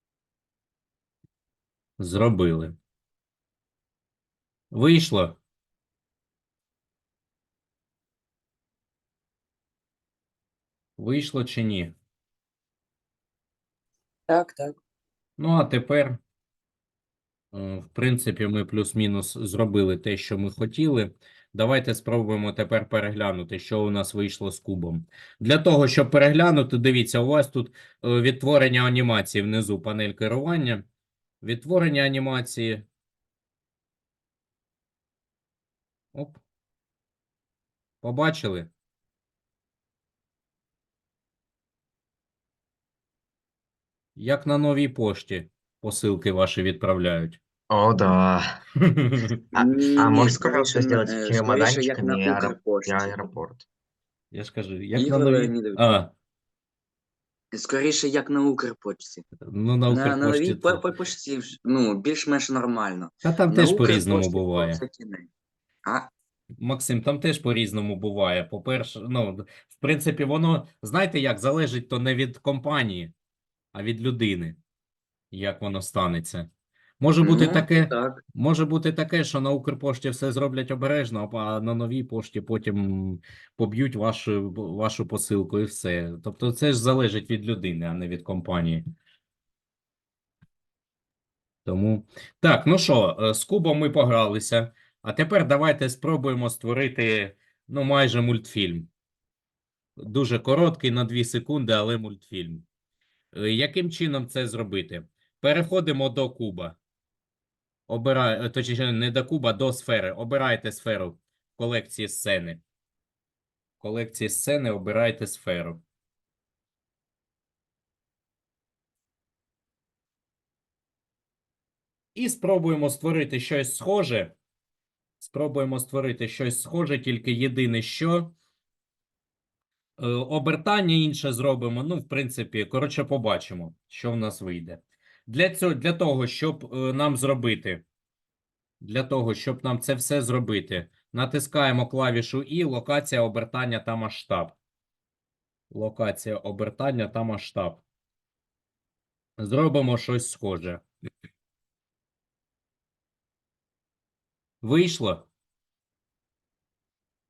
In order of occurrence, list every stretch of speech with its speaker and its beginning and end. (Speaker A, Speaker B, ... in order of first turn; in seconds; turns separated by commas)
Speaker A: 2.0-2.8, Speaker A: 4.7-5.4, Speaker A: 11.0-11.9, Speaker B: 14.3-14.8, Speaker A: 15.4-16.2, Speaker A: 17.5-30.9, Speaker A: 31.4-32.9, Speaker A: 36.1-36.4, Speaker A: 38.0-38.7, Speaker A: 44.2-47.4, Speaker C: 47.7-48.6, Speaker A: 49.0-49.3, Speaker C: 49.5-53.7, Speaker B: 49.5-53.2, Speaker A: 54.3-56.1, Speaker B: 55.0-55.8, Speaker B: 57.5-59.2, Speaker A: 59.5-60.9, Speaker B: 59.9-65.3, Speaker A: 63.2-64.8, Speaker B: 65.8-66.1, Speaker A: 66.6-73.1, Speaker A: 73.7-74.6, Speaker A: 75.3-76.5, Speaker A: 77.0-88.8, Speaker B: 77.2-78.2, Speaker A: 91.7-98.9, Speaker A: 100.0-102.7, Speaker A: 103.3-106.8, Speaker A: 107.9-112.6, Speaker A: 113.8-115.8, Speaker A: 122.2-124.3, Speaker A: 125.2-128.3, Speaker A: 130.0-137.8, Speaker A: 138.8-144.6, Speaker A: 145.7-147.8, Speaker A: 149.4-150.8, Speaker A: 154.6-155.3